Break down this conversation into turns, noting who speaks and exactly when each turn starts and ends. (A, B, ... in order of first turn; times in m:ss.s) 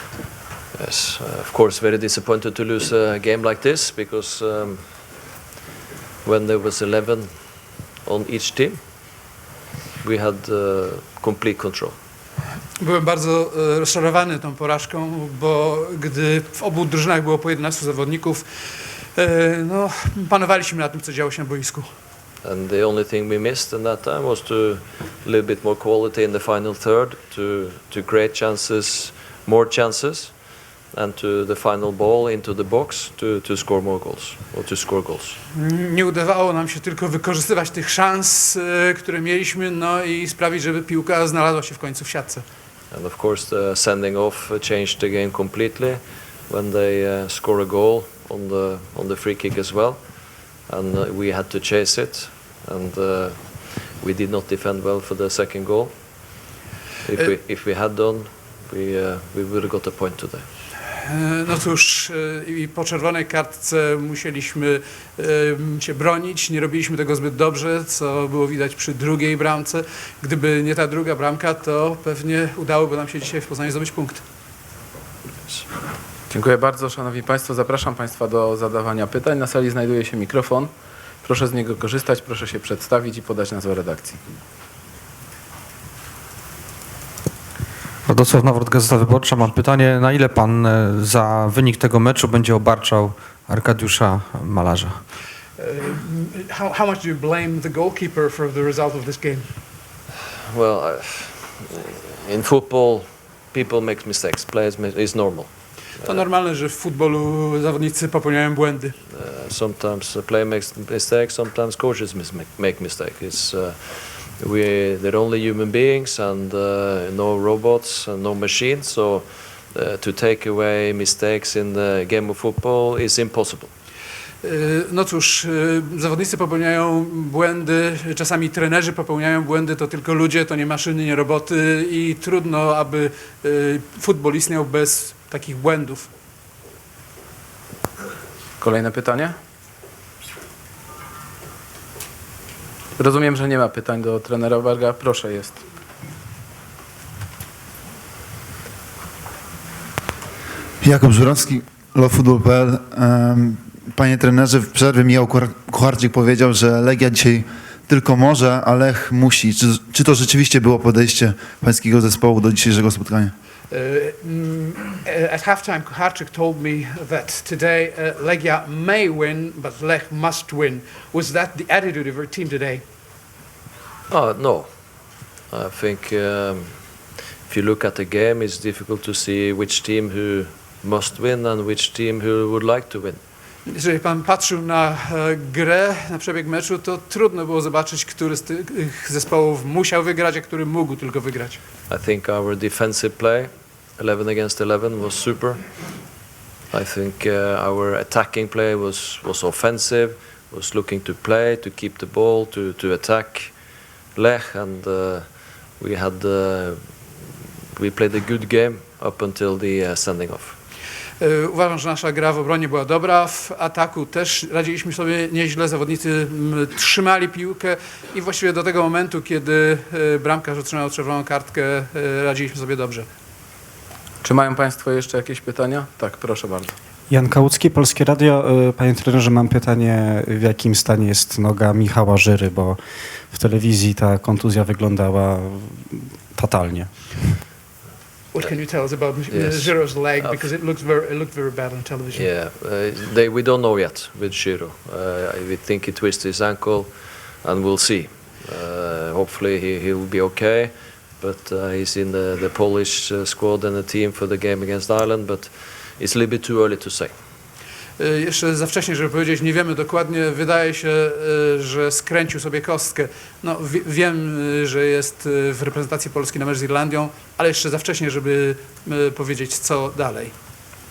0:00.8-0:04.9 A
0:06.2-0:07.4 A
0:08.0-0:08.8 A
0:10.0-0:12.0 A
0:12.8-0:21.9 B
0:22.4-0:30.4 A
0:30.9-0:35.4 A
0:35.5-0:42.4 B
0:42.9-0:50.0 A
0:50.6-0:56.4 A
0:57.0-1:00.5 A
1:00.9-1:14.2 B
1:16.3-1:20.7 C
1:21.2-1:24.2 C
1:28.1-1:35.0 D
1:35.6-1:39.5 B
1:40.5-1:46.2 A
1:46.0-1:49.0 B
1:49.1-2:03.7 A
2:04.4-2:16.1 B
2:18.6-2:19.4 C
2:23.0-2:25.6 C
2:30.8-2:43.3 E
2:43.7-2:52.8 B
2:54.1-2:54.9 A
2:55.5-3:03.2 A
3:03.7-3:11.6 B
3:11.9-3:15.7 A
3:16.7-3:23.6 A
3:24.2-3:27.2 A
3:27.8-3:30.6 A
3:31.2-3:43.1 B
3:44.2-3:46.8 C
3:47.1-3:57.4 F
3:58.3-4:02.3 B
3:58.4-4:00.5 A
4:02.1-4:17.1 A
4:18.0-4:30.3 B